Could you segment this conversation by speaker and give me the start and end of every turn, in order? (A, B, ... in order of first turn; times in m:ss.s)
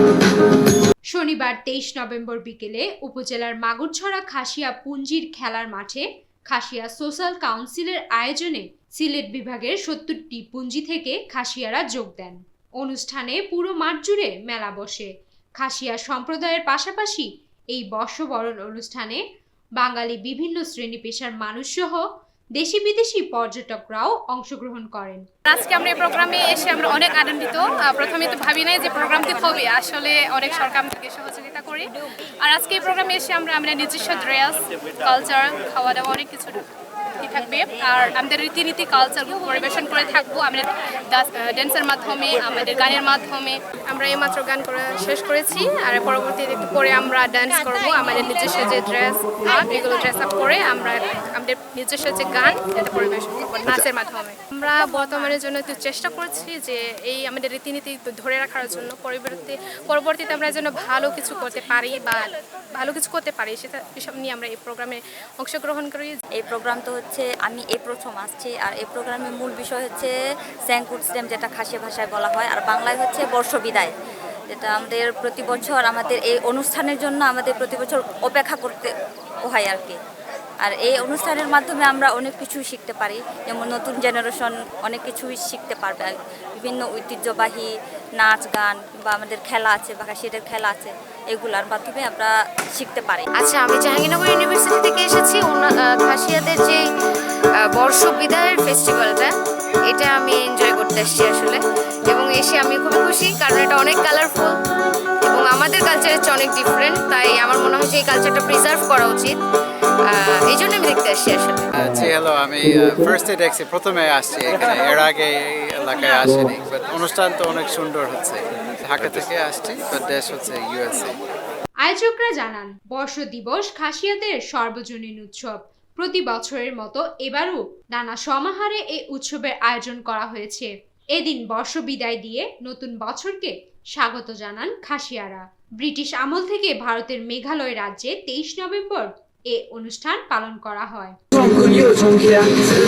0:01.1-0:19.2 A
0:19.8-0:25.3 A
0:25.5-0:31.9 B
0:32.4-0:36.6 B
0:37.2-1:02.2 B
1:02.8-1:06.2 B
1:06.4-1:10.1 C
1:10.7-1:13.9 C
1:14.5-1:18.9 C
1:19.5-1:20.0 C
1:20.6-1:26.1 C
1:26.6-1:27.7 C
1:28.2-1:33.3 C
1:33.4-1:36.9 D
1:37.6-1:39.3 D
1:39.9-1:44.6 D
1:45.2-1:49.4 D
1:50.1-1:51.6 D
1:51.7-2:01.2 E
2:01.8-2:21.2 A